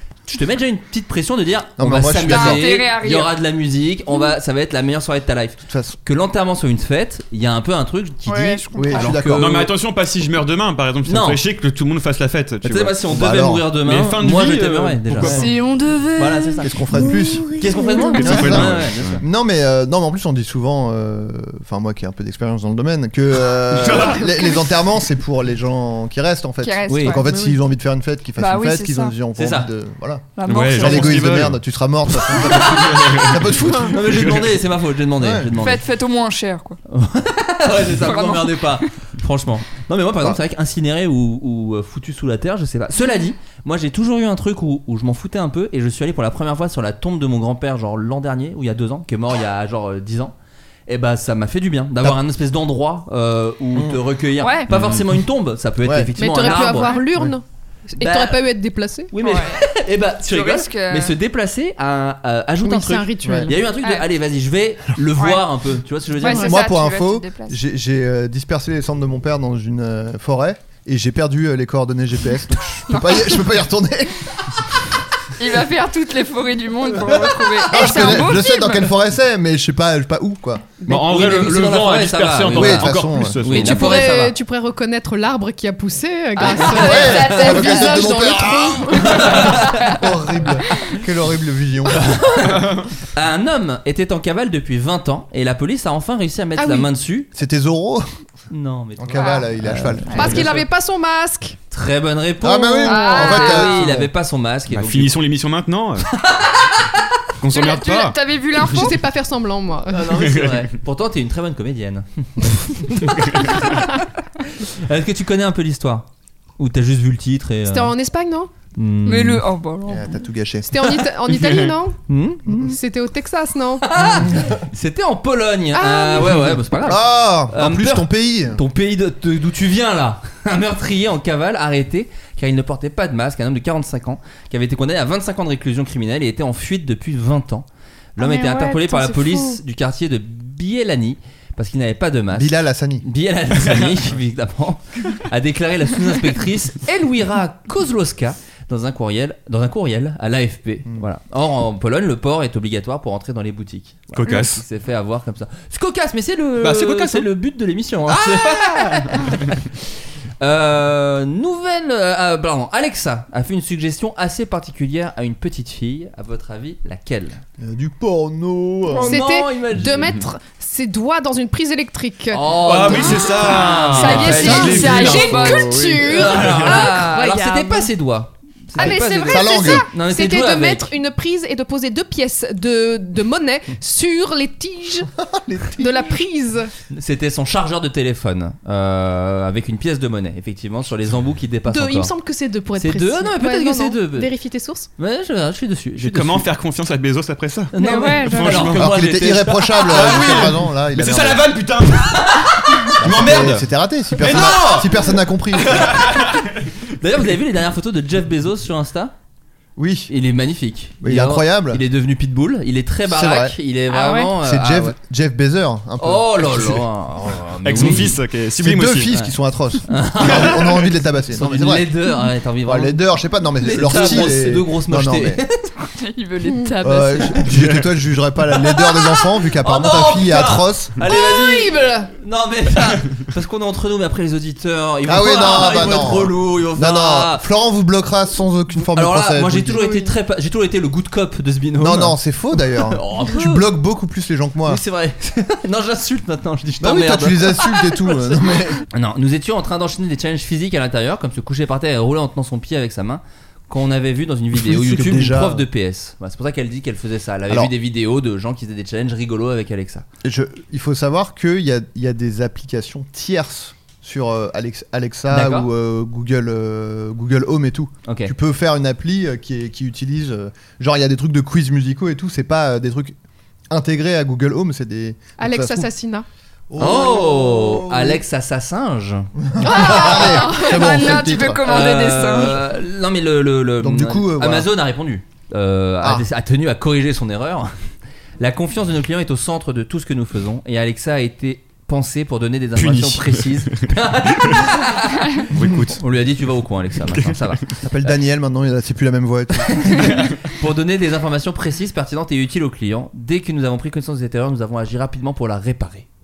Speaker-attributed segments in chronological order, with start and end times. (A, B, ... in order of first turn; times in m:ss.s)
0:00.3-0:09.7 A
0:01.8-0:02.7 B
0:02.2-0:03.3 C
0:05.6-0:06.0 B
0:08.2-0:09.2 C
0:08.7-0:09.6 B
0:09.3-0:13.0 D
0:11.0-0:11.4 A
0:12.6-0:15.5 A
0:13.1-0:13.7 B
0:13.7-0:15.5 D
0:15.2-0:16.7 C
0:16.2-0:16.7 A
0:16.6-0:17.5 B
0:17.0-0:18.2 E
0:17.5-0:19.2 A
0:18.1-0:19.2 D
0:18.2-0:34.1 B
0:23.8-0:24.2 D
0:26.6-0:27.3 C
0:26.9-0:27.2 A
0:27.3-0:27.5 E
0:28.4-0:29.1 C
0:29.4-0:29.7 A
0:30.4-0:31.2 C
0:30.4-0:31.6 D
0:32.5-0:35.8 A
0:32.8-0:34.6 D
0:35.2-0:35.5 B
0:35.6-0:36.8 C
0:36.9-0:50.3 A
0:37.9-0:38.9 C
0:43.0-0:43.3 C
0:50.9-0:57.0 A
0:53.7-0:54.0 B
0:54.4-0:54.7 C
0:54.7-0:55.1 D
0:55.8-0:56.5 B
0:56.2-0:59.1 E
0:56.7-0:57.0 C
0:58.0-0:58.5 A
0:59.1-1:06.5 A
0:59.2-0:59.6 C
1:00.3-1:01.2 C
1:02.6-1:03.7 E
1:03.2-1:03.5 B
1:05.2-1:05.4 C
1:06.2-1:07.6 C
1:06.2-1:06.5 E
1:06.3-1:14.3 B
1:12.9-1:13.5 C
1:15.4-1:18.9 C
1:17.0-1:20.8 B
1:20.8-1:24.0 D
1:20.9-1:24.4 A
1:22.5-1:23.4 B
1:23.5-1:29.6 E
1:26.4-1:28.1 C
1:26.4-1:27.6 A
1:26.7-1:32.1 B
1:29.0-1:29.8 A
1:29.8-1:30.0 C
1:30.7-1:31.0 C
1:31.9-1:37.3 A
1:32.5-1:32.8 D
1:36.6-1:36.9 E
1:37.3-1:38.0 B
1:38.5-1:40.6 A
1:39.0-1:40.5 B
1:39.2-1:39.5 C
1:40.1-1:40.4 C
1:40.1-1:41.6 E
1:41.7-1:45.2 A
1:42.4-1:44.1 B
1:42.8-1:44.0 C
1:44.7-1:46.1 D
1:46.1-1:46.7 A
1:47.4-1:48.2 D
1:47.5-1:49.0 C
1:48.7-1:50.2 E
1:49.9-1:53.4 A
1:50.3-1:50.6 D
1:54.6-1:57.9 A
1:57.7-1:58.5 E
1:58.7-1:59.4 A
1:59.0-2:00.2 C
1:59.9-2:00.8 B
2:00.7-2:03.9 E
2:01.3-2:01.7 D
2:02.1-2:02.7 A
2:03.8-2:17.6 A
2:04.0-2:04.6 B
2:05.7-2:06.6 E
2:06.8-2:08.6 B
2:18.2-2:39.4 A
2:18.2-2:19.6 C
2:22.3-2:23.0 B
2:23.7-2:24.0 D
2:34.1-2:34.6 D
2:36.6-2:37.3 D
2:40.4-2:47.4 A
2:47.6-2:49.1 B
2:48.9-2:49.2 C
2:49.0-2:50.2 A
2:49.0-2:53.4 E
2:52.3-2:55.3 A
2:52.6-2:56.6 D
2:53.9-2:55.9 C
2:53.9-2:57.9 E
2:56.0-3:00.9 A
2:56.7-2:57.3 C
2:58.8-2:59.8 C
2:58.8-3:05.1 E
2:59.2-2:59.9 B
3:05.2-3:06.2 B
3:05.7-3:06.7 E
3:06.9-3:12.1 A
3:11.7-3:14.9 E
3:12.8-3:14.3 A
3:15.0-3:16.5 A
3:16.0-3:18.9 D
3:17.7-3:20.2 A
3:17.8-3:18.7 C
3:18.7-3:21.4 B
3:19.8-3:22.4 D
3:22.3-3:23.4 A
3:23.0-3:25.9 B
3:23.0-3:24.9 D
3:24.2-3:25.1 A
3:25.6-3:26.3 A
3:25.9-3:26.4 D
3:27.0-3:29.1 A
3:29.8-3:30.1 B
3:30.1-3:35.0 A
3:31.0-3:31.8 B
3:33.0-3:33.6 B
3:33.9-3:34.3 C
3:34.4-3:36.9 B
3:36.0-3:38.2 A
3:37.6-3:39.1 D
3:37.7-3:38.1 B
3:38.6-3:41.9 B
3:39.9-3:43.0 A
3:42.6-3:45.4 B
3:43.6-3:45.7 A
3:45.8-3:47.5 C
3:46.8-3:50.9 B
3:47.6-3:47.9 D
3:49.6-3:57.4 A
3:51.1-3:52.1 E
3:55.0-3:59.8 B
3:58.8-4:03.7 A
3:59.7-4:00.1 E
4:01.8-4:04.8 B
4:04.6-4:08.2 A
4:06.8-4:08.8 B
4:08.9-4:20.0 A
4:14.5-4:15.7 B
4:20.2-4:33.2 B
4:25.3-4:25.7 A
4:28.0-4:28.3 A
4:33.7-4:35.9 B
4:35.4-4:36.2 E
4:36.7-4:38.2 B
4:36.8-4:40.2 A
4:39.4-4:41.9 B
4:39.6-4:41.1 E
4:39.7-4:42.6 C
4:41.6-4:47.7 A
4:43.8-4:44.7 B
4:48.4-4:57.6 A
4:52.8-4:53.8 D
4:55.5-4:56.0 D
4:57.0-4:57.5 D
4:57.8-5:00.1 B
4:59.7-5:06.1 A